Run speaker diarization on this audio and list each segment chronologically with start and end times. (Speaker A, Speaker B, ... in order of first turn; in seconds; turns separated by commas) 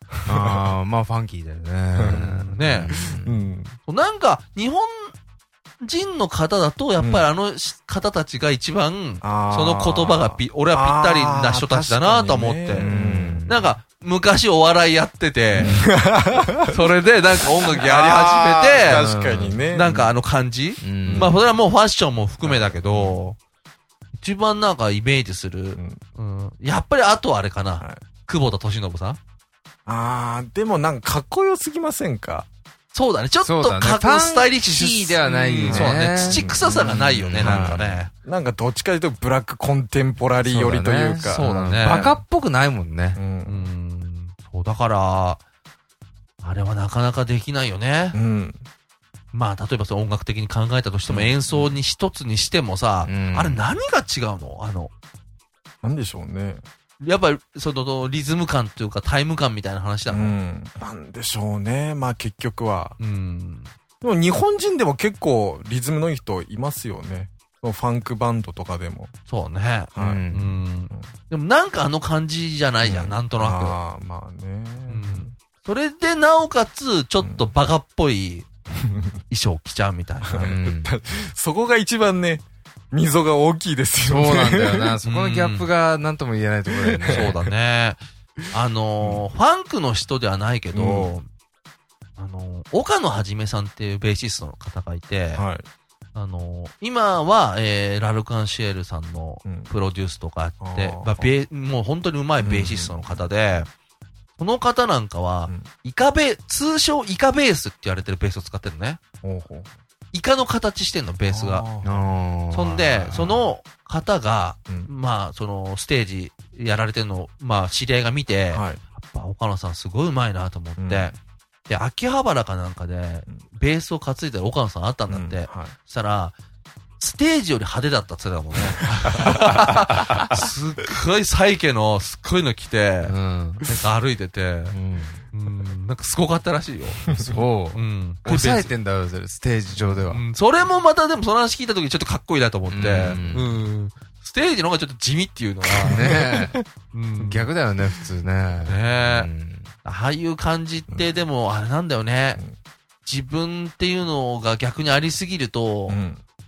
Speaker A: 0.3-3.4, Speaker B: 0.3-0.7, Speaker B: 1.9-2.3, Speaker C: 2.2-3.0, Speaker B: 2.9-3.7, Speaker C: 3.9-5.1, Speaker C: 5.8-12.9, Speaker B: 7.0-7.2, Speaker B: 9.2-13.4, Speaker A: 12.8-13.6, Speaker C: 13.4-15.8, Speaker B: 15.5-16.8, Speaker A: 15.6-15.9, Speaker C: 16.6-19.1, Speaker B: 17.6-20.1, Speaker A: 18.9-19.6, Speaker C: 19.7-23.4, Speaker A: 20.8-21.3, Speaker B: 21.0-21.4, Speaker B: 22.4-23.2, Speaker C: 24.2-29.2, Speaker B: 29.9-32.5, Speaker C: 32.9-38.1, Speaker A: 33.4-37.9, Speaker B: 37.3-41.4, Speaker A: 40.4-43.2, Speaker C: 41.2-42.2, Speaker B: 43.1-43.7, Speaker C: 43.4-45.4, Speaker C: 46.4-48.2, Speaker B: 48.1-48.6, Speaker C: 49.3-54.9, Speaker B: 51.1-51.8, Speaker A: 53.0-53.6, Speaker B: 55.8-56.6, Speaker C: 57.0-60.4, Speaker B: 60.1-63.0, Speaker C: 63.0-63.7, Speaker B: 64.0-69.1, Speaker C: 69.3-73.8, Speaker B: 69.9-70.2, Speaker A: 70.0-70.5, Speaker B: 72.8-75.3, Speaker C: 74.9-78.5, Speaker B: 77.2-77.5, Speaker B: 78.8-79.2, Speaker C: 79.3-80.5, Speaker B: 80.3-84.9, Speaker A: 80.4-80.9, Speaker A: 84.0-87.4, Speaker C: 85.0-85.7, Speaker B: 86.7-87.3, Speaker C: 87.1-91.3, Speaker B: 90.7-91.1, Speaker C: 92.2-95.4, Speaker B: 95.3-95.6, Speaker C: 96.1-103.7, Speaker B: 99.4-99.7, Speaker B: 100.6-101.3, Speaker B: 102.4-103.2, Speaker C: 104.4-109.0, Speaker B: 109.2-109.7, Speaker C: 110.1-111.7, Speaker B: 111.2-112.1, Speaker A: 111.8-113.3, Speaker C: 112.5-121.1, Speaker B: 118.5-118.8, Speaker B: 120.8-121.1, Speaker C: 121.7-126.3, Speaker B: 125.1-125.7, Speaker C: 127.0-133.1, Speaker A: 133.0-133.7, Speaker C: 133.7-134.8, Speaker A: 134.7-135.2, Speaker C: 135.3-138.7, Speaker A: 137.3-140.2, Speaker C: 140.1-146.1, Speaker A: 142.7-143.5, Speaker B: 145.8-146.6, Speaker A: 145.9-146.6, Speaker C: 146.9-147.5, Speaker A: 147.2-149.7, Speaker C: 148.7-149.3, Speaker C: 149.8-152.4, Speaker C: 153.0-156.0, Speaker B: 155.9-156.2